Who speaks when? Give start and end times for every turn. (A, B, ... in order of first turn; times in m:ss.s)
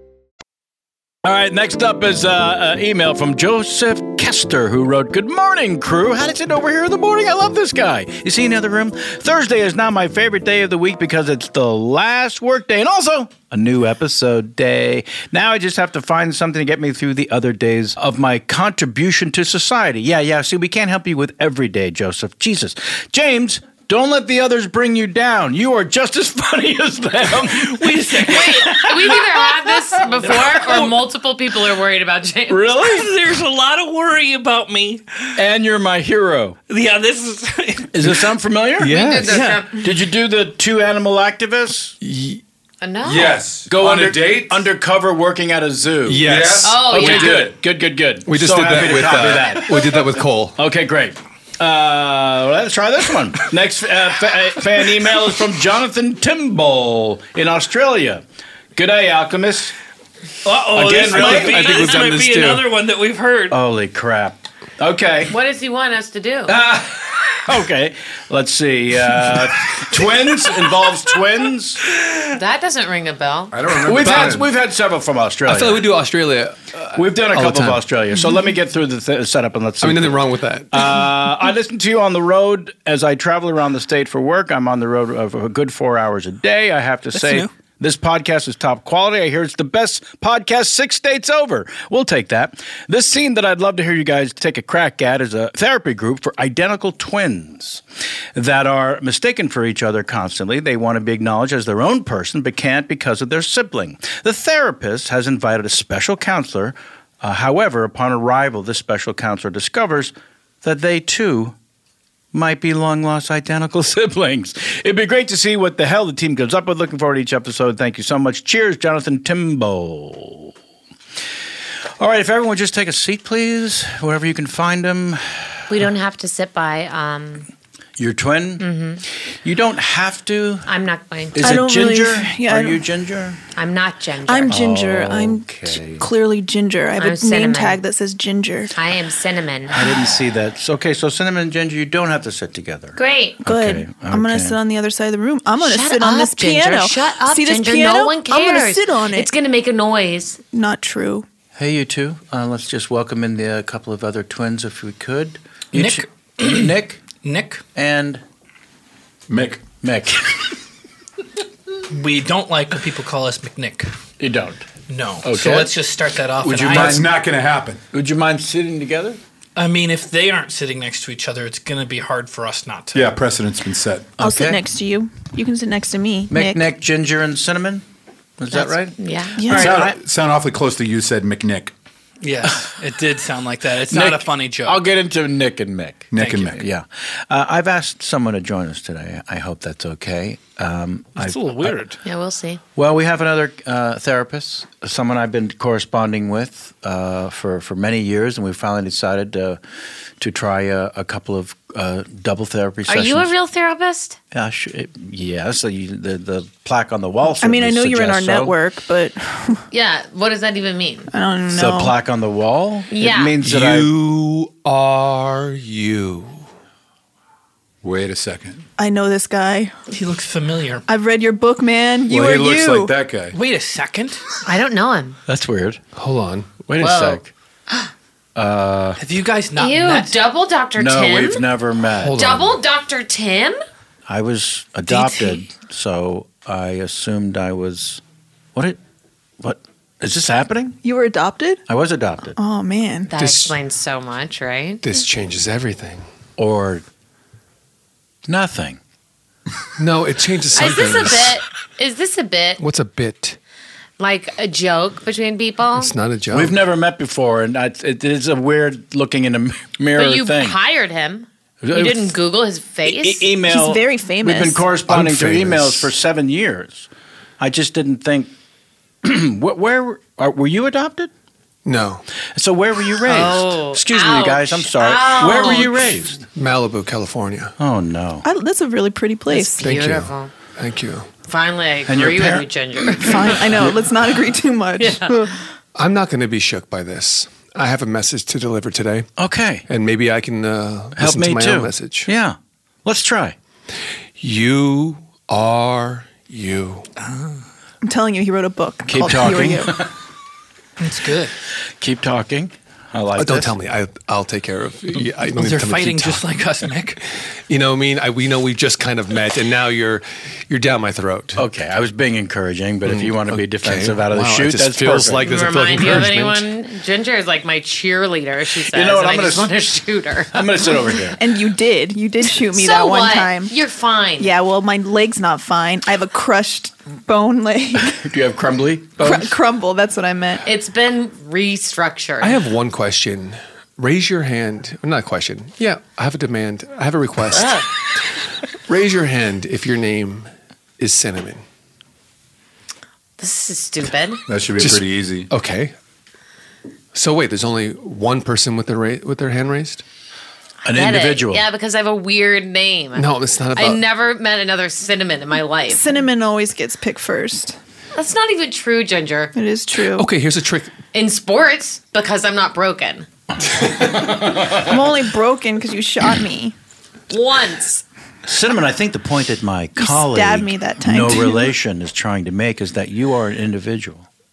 0:01.2-0:29.4 A
0:27.5-0:28.9 B
0:28.4-0:32.6 C
0:30.1-0:30.9 B
0:32.5-0:33.1 A
0:32.8-0:35.0 B
0:35.4-0:36.6 A
0:36.7-0:38.2 B
0:37.9-0:41.9 A
0:38.8-0:39.4 D
0:38.8-0:39.9 C
0:39.3-0:39.6 B
0:42.0-0:42.4 D
0:42.8-0:43.5 C
0:43.0-0:44.6 E
0:43.6-0:58.2 A
0:46.0-0:47.0 D
0:46.2-0:47.4 E
0:46.6-0:47.5 C
0:48.2-0:50.6 D
0:58.7-0:59.7 A
1:00.4-1:03.6 B
1:00.7-1:02.1 A
1:00.9-1:02.7 D
1:03.5-1:05.3 A
1:05.3-1:06.5 C
1:06.4-1:11.8 A
1:12.3-1:13.6 C
1:13.5-1:14.5 E
1:13.8-1:15.9 A
1:15.4-1:17.8 D
1:16.9-1:37.8 A
1:19.8-1:20.8 D
1:27.1-1:27.5 B
1:38.3-1:51.6 A
1:52.3-2:00.5 A
2:02.0-2:05.7 A
2:05.7-2:07.5 C
2:08.0-2:08.6 A
2:08.6-2:09.0 C
2:09.3-2:10.7 A
2:10.6-2:11.6 C
2:11.3-2:13.4 A
2:11.4-2:12.8 F
2:13.5-2:14.6 C
2:14.3-2:18.7 F
2:14.5-2:16.1 A
2:17.0-2:17.8 C
2:18.7-2:19.8 C
2:19.7-2:24.6 A
2:23.0-2:23.4 C
2:23.4-2:29.3 F
2:25.6-2:30.4 C
2:30.5-2:31.2 F
2:31.5-2:37.0 A
2:35.7-2:37.6 B
2:37.7-2:38.2 A
2:39.3-2:39.6 E
2:39.8-2:40.5 A
2:41.9-2:43.9 B
2:44.2-2:44.6 A
2:44.9-2:47.0 B
2:45.2-2:45.7 A
2:46.4-2:47.1 A
2:46.6-2:47.8 E
2:47.9-2:49.2 A
2:49.6-2:53.1 B
2:52.9-2:54.2 E
2:54.2-2:54.6 A
2:54.2-2:56.6 F
2:56.3-2:57.8 A
2:58.4-3:00.0 A
2:58.5-2:59.5 C
2:59.4-2:59.8 F
2:59.5-3:01.7 E
3:02.2-3:04.8 B
3:03.9-3:11.8 A
3:06.1-3:06.6 E
3:06.2-3:06.6 B
3:11.2-3:12.0 B
3:12.0-3:12.6 C
3:12.8-3:19.6 A
3:20.2-3:23.3 A
3:22.9-3:24.2 C
3:24.3-3:28.6 A
3:27.3-3:29.6 F
3:29.7-3:31.1 C
3:31.1-3:32.0 F
3:31.5-3:33.9 A
3:32.9-3:33.4 C
3:33.4-3:36.5 D
3:37.8-3:38.6 E
3:38.8-3:39.7 F
3:39.9-3:40.8 B
3:40.9-3:42.9 F
3:42.1-3:43.4 E
3:43.3-3:44.2 B
3:44.4-3:45.2 C
3:45.3-3:45.8 A
3:45.9-3:46.5 D
3:46.6-3:47.3 A
3:46.8-3:47.9 C
3:48.4-3:49.0 A
3:49.0-3:50.2 B
3:49.6-3:51.4 C
3:50.8-3:52.3 A
3:52.0-3:52.6 D
3:52.1-3:53.6 C
3:54.1-3:58.0 A
3:54.9-3:55.4 C
3:59.4-4:00.8 A
4:00.8-4:01.6 F
4:01.7-4:02.4 A
4:02.4-4:03.1 F
4:03.1-4:04.8 C
4:03.1-4:03.6 D
4:04.8-4:06.0 D
4:06.4-4:06.8 A
4:08.2-4:08.8 A
4:09.8-4:11.4 D
4:10.5-4:12.6 C
4:12.6-4:13.4 D
4:14.0-4:15.9 C
4:15.8-4:16.6 D
4:16.3-4:20.6 A
4:19.9-4:23.4 C
4:21.6-4:22.1 A
4:22.8-4:28.3 A
4:23.4-4:24.8 F
4:24.9-4:25.9 D
4:29.0-4:31.1 A
4:31.6-4:32.0 D
4:32.3-4:36.2 A
4:33.0-4:35.7 C
4:35.3-4:37.5 D
4:37.6-4:38.2 A
4:38.2-4:39.6 F
4:39.3-4:40.3 C
4:39.6-4:41.1 D
4:41.2-4:43.5 C
4:41.9-4:42.5 A
4:43.0-4:45.3 F
4:43.4-4:43.7 A
4:44.8-4:45.2 C
4:45.7-4:49.1 D
4:49.2-4:49.6 A
4:49.7-4:52.1 D
4:51.0-4:53.4 A
4:54.2-4:56.9 D
4:57.0-4:57.4 B
4:57.8-4:59.9 F
4:58.8-4:59.9 A
5:00.8-5:01.3 B
5:01.8-5:03.5 A
5:03.2-5:06.2 D
5:05.3-5:07.0 B
5:07.5-5:11.4 D
5:11.3-5:15.2 A
5:12.9-5:16.5 D
5:15.2-5:21.0 C
5:18.7-5:19.5 A
5:20.3-5:21.2 A
5:21.2-5:23.5 F
5:22.4-5:24.3 C
5:24.2-5:28.0 F
5:27.8-5:29.3 A
5:29.0-5:30.4 F
5:30.4-5:32.4 C
5:32.2-5:37.6 D
5:37.3-5:37.7 C
5:38.7-5:41.4 D
5:43.2-5:44.2 C
5:44.3-5:45.3 E
5:44.6-5:45.7 D
5:46.9-5:49.8 D
5:50.6-5:51.4 A
5:50.7-5:55.9 C
5:53.0-5:53.8 D
5:55.7-5:57.6 F
5:57.9-5:59.3 C
5:59.3-6:00.1 F
5:59.9-6:00.8 D
6:00.9-6:03.1 C
6:04.0-6:04.6 A
6:04.5-6:06.5 F
6:07.1-6:07.8 C
6:08.2-6:14.1 A
6:09.8-6:11.5 F